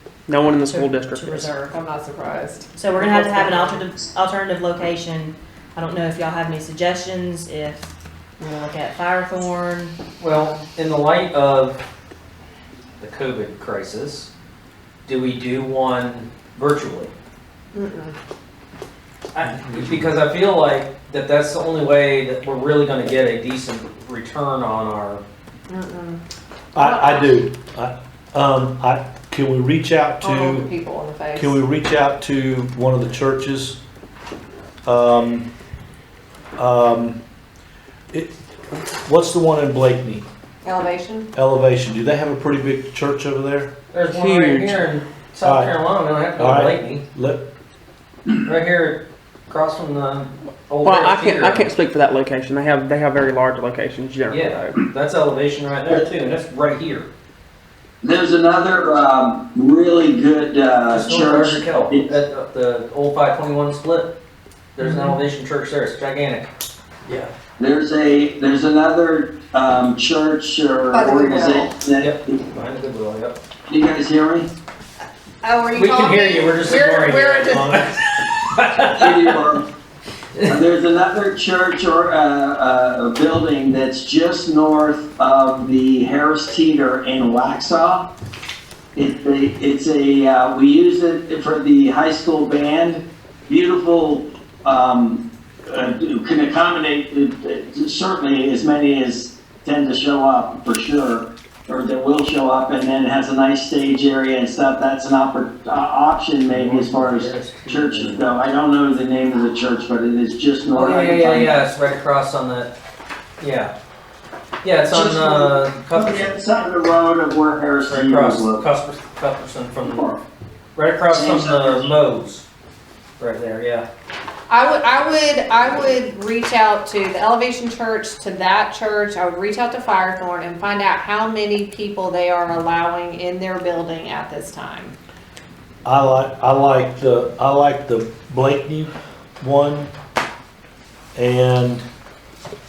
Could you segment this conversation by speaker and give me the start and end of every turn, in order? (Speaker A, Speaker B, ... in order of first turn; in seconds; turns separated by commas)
Speaker A: 0.3-1.5, Speaker B: 0.5-1.7, Speaker C: 1.7-3.8, Speaker B: 2.8-10.0, Speaker D: 10.2-11.8, Speaker D: 13.0-14.3, Speaker D: 15.1-17.1, Speaker C: 17.7-18.2, Speaker D: 19.3-25.2, Speaker E: 19.6-20.1, Speaker C: 25.7-26.2, Speaker E: 26.7-30.7, Speaker C: 26.8-27.3, Speaker C: 30.2-31.5, Speaker E: 31.4-33.8, Speaker E: 34.9-35.5, Speaker E: 36.6-37.2, Speaker E: 38.9-40.2, Speaker C: 40.6-41.3, Speaker E: 41.4-43.7, Speaker D: 43.9-47.0, Speaker A: 44.1-44.8, Speaker E: 45.4-45.8, Speaker E: 46.4-47.5, Speaker D: 48.4-51.7, Speaker A: 50.8-54.8, Speaker D: 54.3-57.1, Speaker F: 58.0-62.1, Speaker D: 60.9-64.1, Speaker D: 64.8-66.5, Speaker B: 64.8-65.2, Speaker D: 67.0-67.3, Speaker F: 67.6-72.4, Speaker C: 70.9-71.8, Speaker D: 72.0-73.4, Speaker F: 73.7-74.5, Speaker C: 75.4-77.9, Speaker D: 75.7-79.3, Speaker F: 78.8-79.7, Speaker F: 80.5-88.1, Speaker F: 89.0-111.7, Speaker D: 106.5-108.3, Speaker D: 110.8-112.7, Speaker D: 113.4-113.7, Speaker D: 114.6-116.4, Speaker F: 114.9-118.6, Speaker D: 117.9-120.1, Speaker F: 119.8-120.2, Speaker D: 120.8-122.5, Speaker F: 121.1-121.9, Speaker D: 123.2-123.9, Speaker C: 124.5-135.0, Speaker E: 135.8-139.9, Speaker E: 141.2-141.8